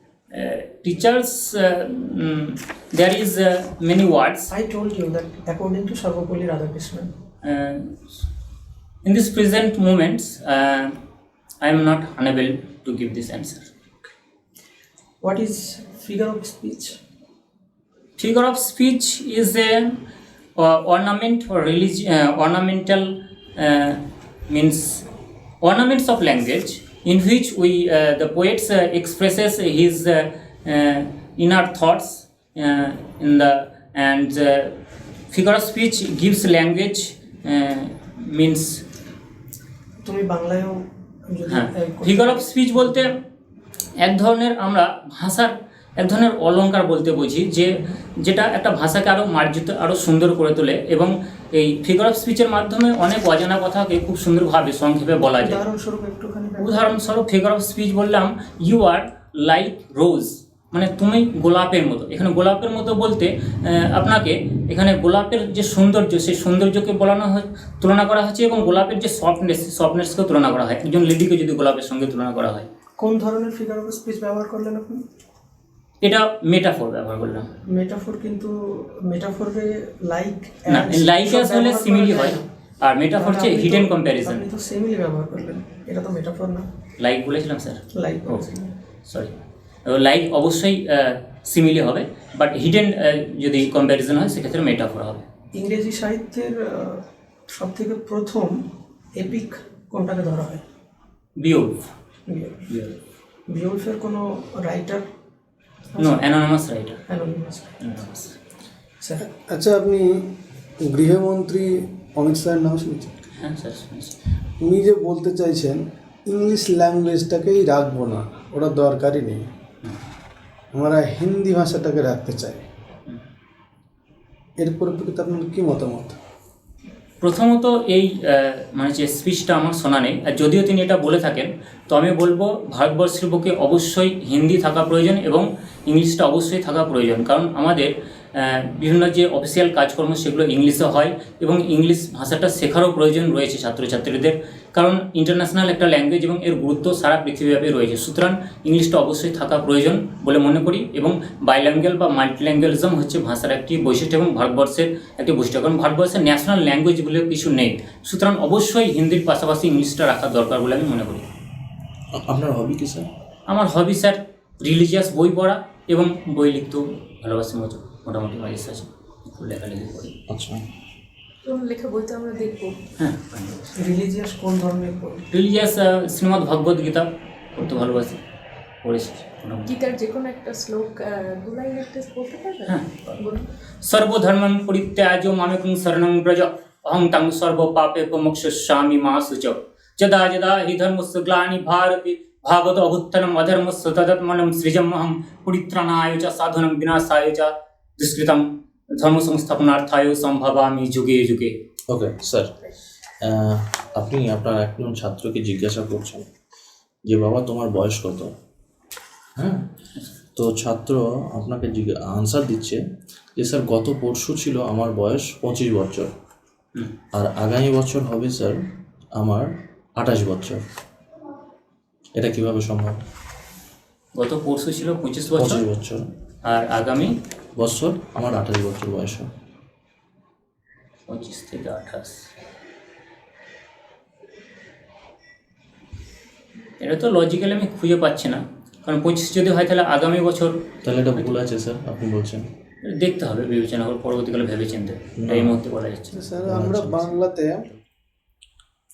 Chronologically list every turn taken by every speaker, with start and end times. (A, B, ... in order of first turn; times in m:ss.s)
0:00.3-0:04.5 A
0:04.5-0:07.1 B
0:07.4-0:08.0 A
0:09.0-0:11.0 A
0:11.6-0:13.7 A
0:15.2-0:17.0 B
0:18.2-0:20.0 A
0:20.6-0:25.1 A
0:25.6-0:34.8 A
0:35.3-0:38.8 A
0:40.0-0:43.1 B
0:41.5-0:43.2 A
0:44.0-0:55.6 A
0:55.4-0:56.9 B
0:56.6-1:12.7 A
1:13.0-1:15.0 B
1:16.0-1:17.5 A
1:17.7-1:22.5 B
1:20.7-1:24.5 A
1:23.2-1:26.7 B
1:27.0-1:28.5 A
1:27.9-1:28.7 B
1:29.1-1:29.3 A
1:29.8-1:35.3 A
1:35.5-1:38.6 B
1:39.2-1:40.6 B
1:41.4-1:41.9 A
1:42.3-1:42.6 B
1:42.7-1:43.0 A
1:43.5-1:45.0 B
1:45.9-1:46.2 B
1:46.0-1:47.0 A
1:47.1-1:47.7 B
1:47.8-1:48.4 A
1:49.4-1:53.1 C
1:53.4-1:54.2 A
1:54.6-1:59.5 C
2:00.7-2:02.7 C
2:04.6-2:06.2 C
2:07.2-2:41.3 A
2:42.1-2:43.1 D
2:43.5-2:50.2 A
2:50.3-2:50.7 D
2:51.4-2:52.8 E
2:53.0-2:53.8 A
2:53.8-2:55.2 B
2:55.3-2:58.2 A
2:58.8-2:59.7 A
2:59.7-3:03.5 E
3:02.7-3:03.2 A
3:03.8-3:21.6 A
3:21.9-3:22.5 D
3:23.2-3:26.3 D
3:27.1-3:28.3 D
3:29.4-3:29.7 D
3:30.4-3:32.8 D
3:33.4-3:36.1 D
3:37.1-3:38.6 D
3:39.2-3:40.6 D
3:42.2-3:43.0 D
3:44.2-3:45.7 A
3:45.3-3:46.1 D
3:46.4-3:47.2 A
3:47.6-3:49.3 D
3:51.1-3:52.3 A
3:56.8-4:00.6 A
4:00.8-4:02.5 D
4:02.8-4:06.4 A
4:05.2-4:05.6 D
4:06.1-4:07.6 C
4:06.4-4:07.2 D